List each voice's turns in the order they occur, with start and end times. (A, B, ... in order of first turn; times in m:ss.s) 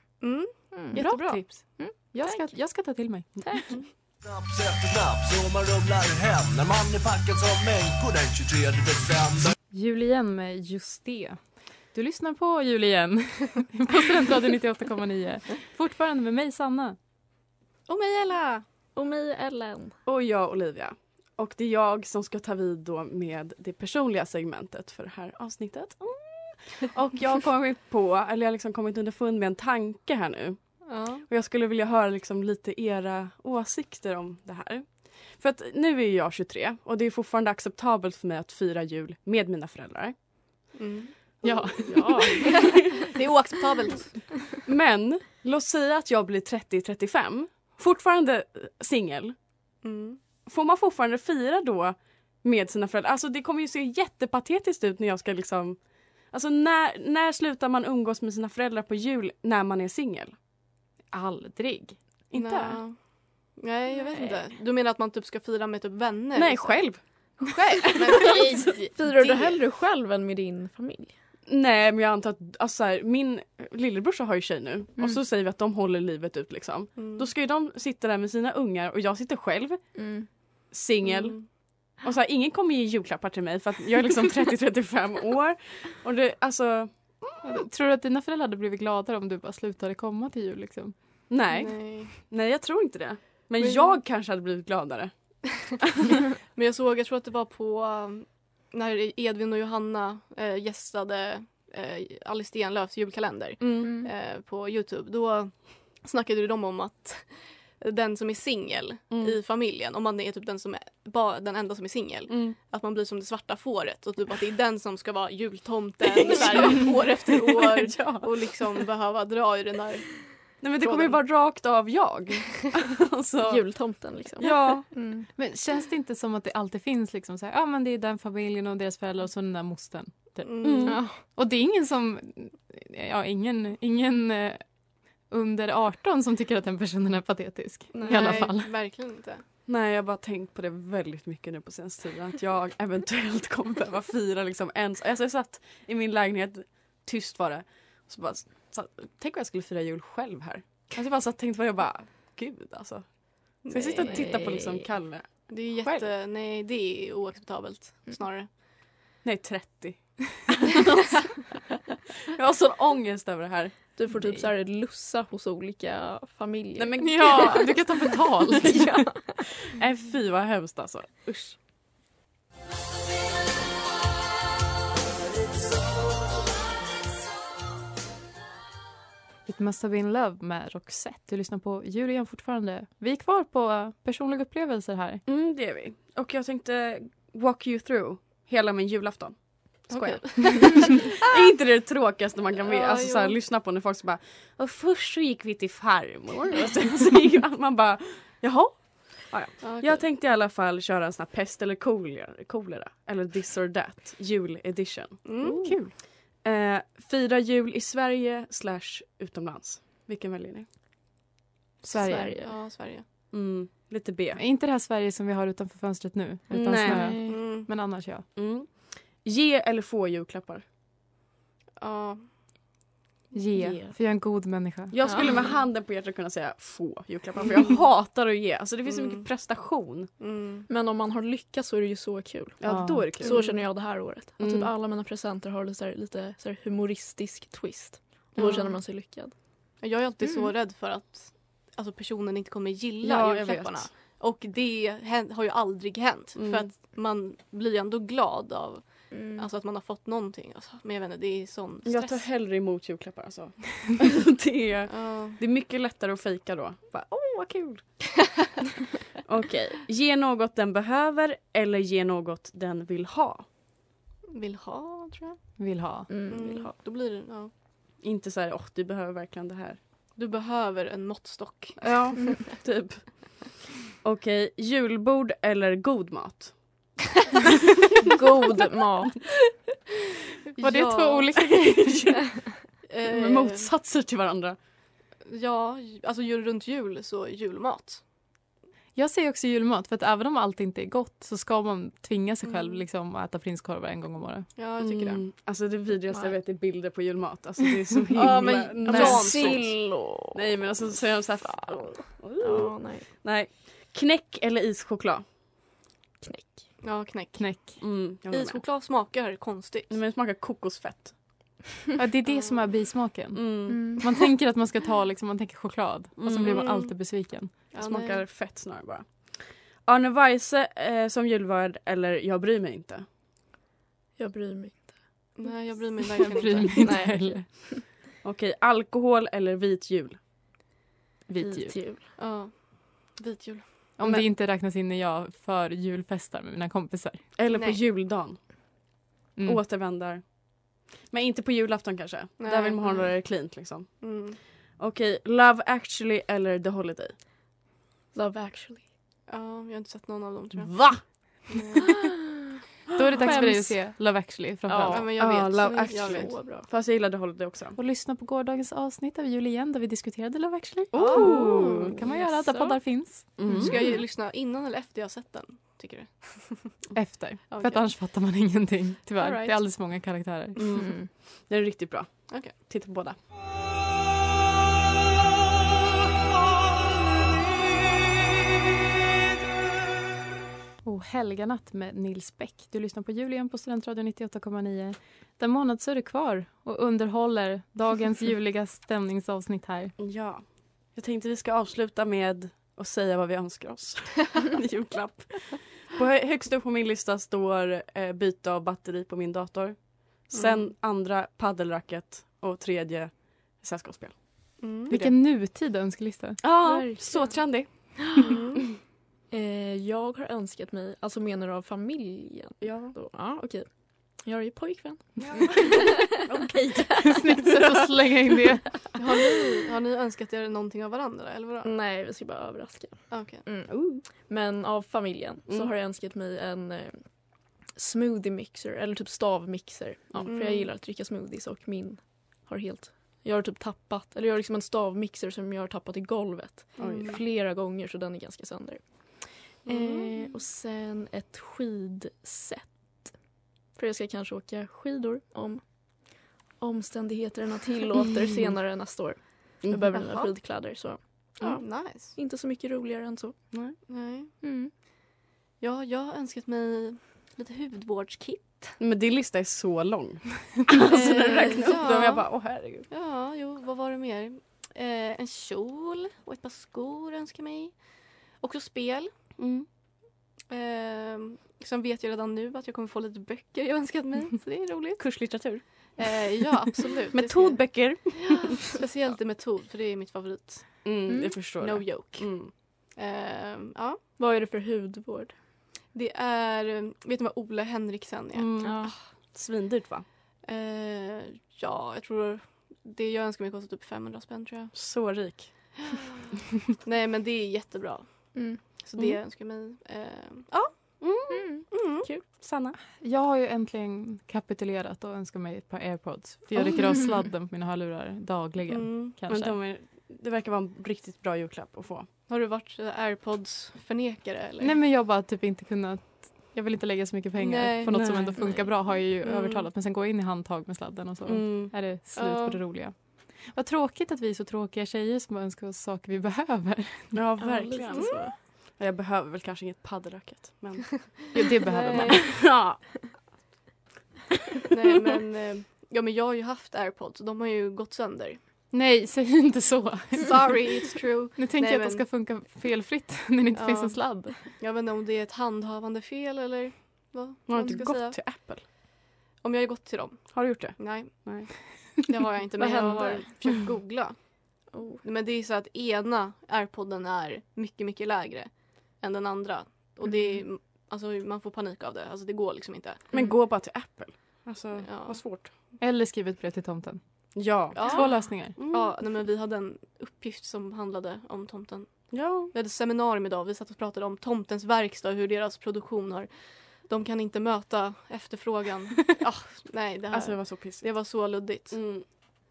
0:00.2-0:01.3 A
0:00.7-0:03.7 B
0:00.9-0:03.6 C
0:01.0-0:01.3 D
0:04.2-0:09.5 E
0:09.7-0:17.0 C
0:17.9-0:18.6 A
0:18.9-0:19.9 B
0:20.0-0:40.1 D
0:30.9-0:31.2 A
0:40.8-0:44.4 A
0:41.4-0:42.4 C
0:42.4-0:42.8 D
0:44.6-0:49.4 D
0:49.8-0:50.2 A
0:50.4-1:00.3 D
1:01.1-1:02.0 C
1:02.3-1:02.8 D
1:02.3-1:03.0 A
1:03.6-1:06.9 A
1:03.9-1:04.4 B
1:06.3-1:08.6 D
1:07.9-1:09.6 A
1:08.1-1:11.1 B
1:11.5-1:19.8 D
1:17.0-1:17.3 A
1:19.9-1:20.3 B
1:20.7-1:27.2 D
1:21.0-1:21.5 A
1:27.4-1:31.0 C
1:31.3-1:35.1 D
1:31.5-1:32.1 A
1:33.6-1:34.0 A
1:36.5-2:01.2 A
1:43.6-1:43.9 D
1:43.8-1:44.1 B
1:49.1-1:49.4 D
1:52.3-1:52.6 D
1:56.1-1:58.6 D
2:00.6-2:03.6 D
2:03.4-2:05.3 B
2:04.4-2:04.9 D
2:05.3-2:14.7 C
2:10.4-2:11.0 A
2:10.6-2:11.0 D
2:10.8-2:11.2 B
2:15.3-2:18.7 C
2:17.9-2:19.4 A
2:19.6-2:36.1 D
2:33.6-2:34.3 A
2:34.1-2:34.7 B
2:35.5-2:38.5 A
2:39.2-2:40.8 D
2:42.3-2:43.9 D
2:44.0-2:47.8 B
2:46.8-2:47.7 D
2:47.0-2:49.1 C
2:48.6-2:49.2 B
2:48.6-2:51.6 D
2:59.4-3:05.2 C
3:05.2-3:25.7 D
3:09.9-3:11.2 A
3:12.6-3:13.4 A
3:19.6-3:20.0 A
3:25.2-3:25.7 A
3:25.4-3:25.9 C
3:26.4-3:30.6 D
3:31.8-3:32.4 C
3:31.8-3:32.5 B
3:32.4-3:33.0 A
3:33.3-3:34.4 D
3:34.4-3:38.3 C
3:36.5-3:37.1 D
3:36.8-3:37.4 B
3:37.2-3:37.7 A
3:38.3-3:40.6 D
3:41.8-3:42.3 A
3:43.3-3:44.9 C
3:43.6-3:44.0 B
3:44.9-3:50.1 D
3:45.0-3:45.3 B
3:48.8-3:49.3 A
3:50.2-3:50.7 A
3:50.7-3:59.3 B
3:52.6-3:53.5 D
3:52.7-3:53.1 C
3:53.2-3:53.6 A
3:54.4-3:54.7 D
3:58.3-3:58.8 A
3:59.8-4:12.2 A
4:00.2-4:00.5 B
4:03.0-4:03.9 D
4:06.3-4:06.7 D
4:09.1-4:09.4 B
4:11.8-4:18.4 D
4:14.9-4:15.4 A
4:19.2-4:23.4 D
4:24.3-4:25.4 A
4:25.6-4:26.1 C
4:26.1-4:26.7 B
4:26.3-4:27.5 A
4:28.0-4:29.8 D
4:30.2-4:32.4 A
4:31.8-4:36.8 D
4:38.1-4:39.2 B
4:40.5-4:41.3 A
4:40.6-4:41.9 C
4:41.4-4:44.6 D
4:42.8-4:43.7 A
4:45.2-4:48.0 A
4:48.9-4:54.5 C
4:52.4-4:52.8 A
4:54.5-4:55.2 A
4:54.8-5:05.2 D
4:56.1-4:56.4 B
4:58.1-4:59.7 A
4:58.8-5:00.7 B
5:01.4-5:01.8 B
5:02.4-5:03.0 B
5:06.2-5:06.6 B
5:06.8-5:10.0 A
5:07.4-5:07.8 C
5:07.8-5:08.6 D
5:09.9-5:11.5 D
5:12.0-5:17.7 C
5:12.3-5:12.7 A
5:13.3-5:14.0 D
5:13.7-5:14.0 B
5:16.2-5:16.6 D
5:16.3-5:18.2 A
5:17.7-5:23.0 D
5:24.2-5:25.0 B
5:25.4-5:27.1 A
5:26.2-5:27.7 C
5:26.5-5:27.8 B
5:28.2-5:30.2 D
5:31.3-5:32.0 C
5:31.4-5:32.0 B
5:32.1-5:34.3 A
5:34.0-5:37.3 C
5:37.4-5:38.5 D
5:37.5-5:37.8 A
5:39.4-5:39.6 C
5:39.4-5:47.1 D
5:42.4-5:44.4 A
5:48.1-5:48.8 B
5:49.3-5:52.2 A
5:50.7-5:51.0 D
5:53.0-5:55.2 C
5:53.2-5:53.5 D
5:53.2-5:53.5 A
5:54.8-5:56.4 A
5:54.9-5:57.8 D
5:56.1-5:56.7 B
5:57.8-6:03.9 C
6:00.9-6:02.0 D
6:00.9-6:02.0 A
6:02.0-6:03.5 B
6:03.4-6:03.7 D
6:03.5-6:06.9 A
6:06.9-6:10.6 C
6:07.5-6:08.0 A
6:09.2-6:09.8 A
6:10.6-6:13.2 D
6:10.7-6:11.1 B
6:12.3-6:12.5 A
6:20.8-6:29.9 C
6:30.0-6:45.1 D
6:40.3-6:40.7 A
6:44.6-6:45.0 A
6:44.9-6:46.4 C
6:46.4-6:48.0 D
6:46.6-6:48.2 B
6:48.2-6:48.7 A
6:49.3-6:56.0 B
6:52.6-6:52.9 D
6:55.3-6:57.9 D
6:57.0-6:58.9 C
6:59.0-7:01.7 A
7:01.6-7:23.1 B
7:03.1-7:03.4 A
7:03.7-7:04.0 D
7:10.2-7:10.7 A
7:16.8-7:17.2 A
7:16.8-7:17.1 D
7:19.6-7:20.3 A
7:23.7-7:33.4 B
7:29.6-7:30.3 D
7:31.4-7:32.1 A
7:33.9-7:34.3 A
7:34.4-7:34.7 B
7:35.6-7:38.8 A
7:38.8-7:42.8 D
7:40.8-7:47.8 A
7:48.3-7:49.1 A
7:49.4-7:49.6 D
7:50.5-7:57.7 A
7:55.0-7:56.0 D
7:57.1-7:58.0 C
7:57.2-7:58.4 D
7:58.2-8:00.8 A
8:00.8-8:02.5 D
8:01.1-8:01.4 B
8:01.6-8:04.0 A
8:04.2-8:05.3 B
8:05.9-8:08.5 A
8:08.3-8:10.0 D
8:08.6-8:08.9 B
8:10.4-8:15.2 A
8:14.7-8:15.7 D
8:15.8-8:16.2 A
8:16.8-8:21.0 A
8:18.3-8:18.6 B
8:21.0-8:21.7 D
8:21.3-8:22.2 B
8:21.7-8:22.1 A
8:22.4-8:22.8 D
8:22.8-8:29.6 C
8:28.7-8:29.2 A
8:29.3-8:32.1 D
8:32.3-8:34.8 A
8:34.6-8:47.3 C
8:37.4-8:39.7 A
8:37.9-8:38.4 D
8:38.4-8:38.6 B
8:41.2-8:41.8 D
8:42.1-8:42.8 A
8:47.1-8:51.3 D
8:47.4-8:48.4 B
8:47.9-8:48.2 A
8:51.1-8:52.5 A
8:51.3-8:52.3 C
8:52.1-8:52.8 D
8:54.7-8:58.4 A
8:58.7-9:00.8 C
9:00.2-9:02.1 A
9:01.4-9:04.5 C
9:03.5-9:08.7 A
9:07.5-9:08.6 D
9:09.4-9:11.6 A
9:10.3-9:11.5 D
9:12.1-9:23.3 A
9:12.6-9:13.3 B
9:12.7-9:13.6 D
9:14.7-9:15.0 B
9:23.1-9:25.5 D
9:24.8-9:25.5 A
9:25.8-9:28.6 C
9:27.3-9:28.9 D
9:27.7-9:42.2 A
9:32.1-9:32.5 D
9:40.1-9:42.0 D